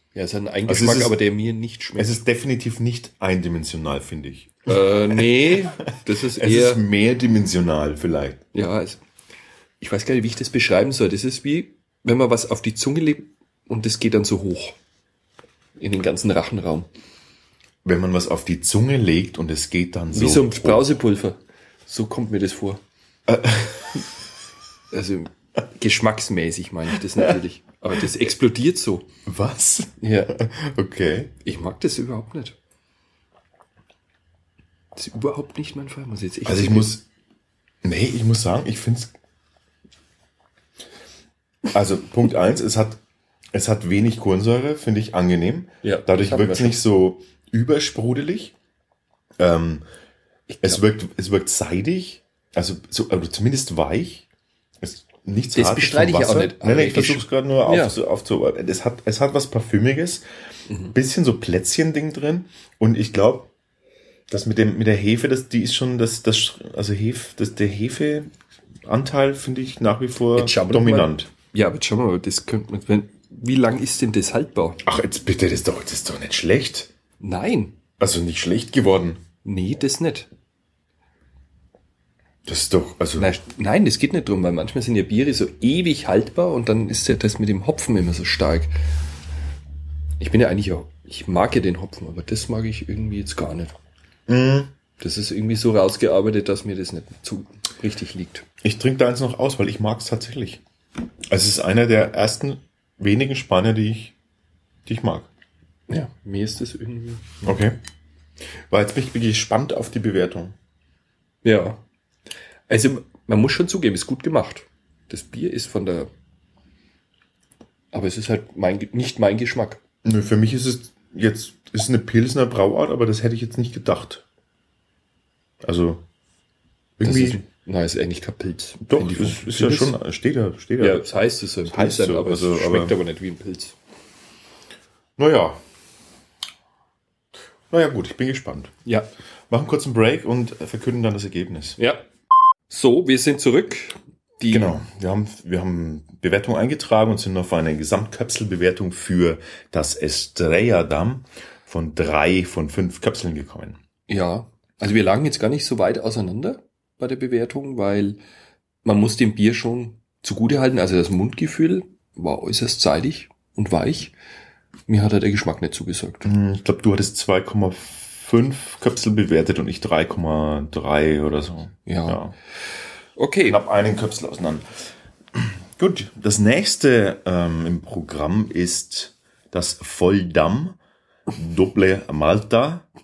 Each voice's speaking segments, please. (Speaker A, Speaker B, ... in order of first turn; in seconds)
Speaker A: 0.1-2.2, 4.7-6.8, 8.5-9.0, 9.8-14.8, 15.8-16.9, 20.1-22.8, 24.9-29.1, 30.0-30.4, 31.4-32.6, 35.0-37.0, 45.8-46.8, 50.5-50.8, 55.5-58.0, 60.7-60.9, 70.3-74.8, 77.2-77.8, 79.4-80.3, 83.2-88.7, 90.2-93.8, 95.0-98.5, 105.9-107.5, 111.4-111.8, 112.7-116.1, 117.9-119.8, 127.0-130.0, 130.8-133.8, 141.8-142.1, 142.7-144.8, 154.1-158.2, 158.8-164.1, 164.9-166.3, 171.9-172.2, 173.2-173.6
Speaker B: 0.7-1.2, 2.0-8.4, 17.8-20.9, 23.3-24.1, 29.3-31.3, 36.5-37.0, 37.8-39.1, 41.7-43.0, 43.5-48.5, 49.4-49.8, 50.6-54.3, 54.8-60.2, 60.9-63.5, 64.3-68.3, 68.9-71.3, 74.8-76.9, 78.0-79.2, 82.5-83.3, 94.3-94.7, 98.6-100.6, 101.3-104.2, 104.9-105.3, 107.4-107.8, 108.7-110.5, 120.0-124.2, 125.6-126.1, 127.0-127.4, 128.8-133.0, 135.2-135.6, 137.7-138.7, 139.5-141.8, 144.5-153.8, 166.2-172.3, 173.5-174.7, 175.3-180.8, 181.3-182.9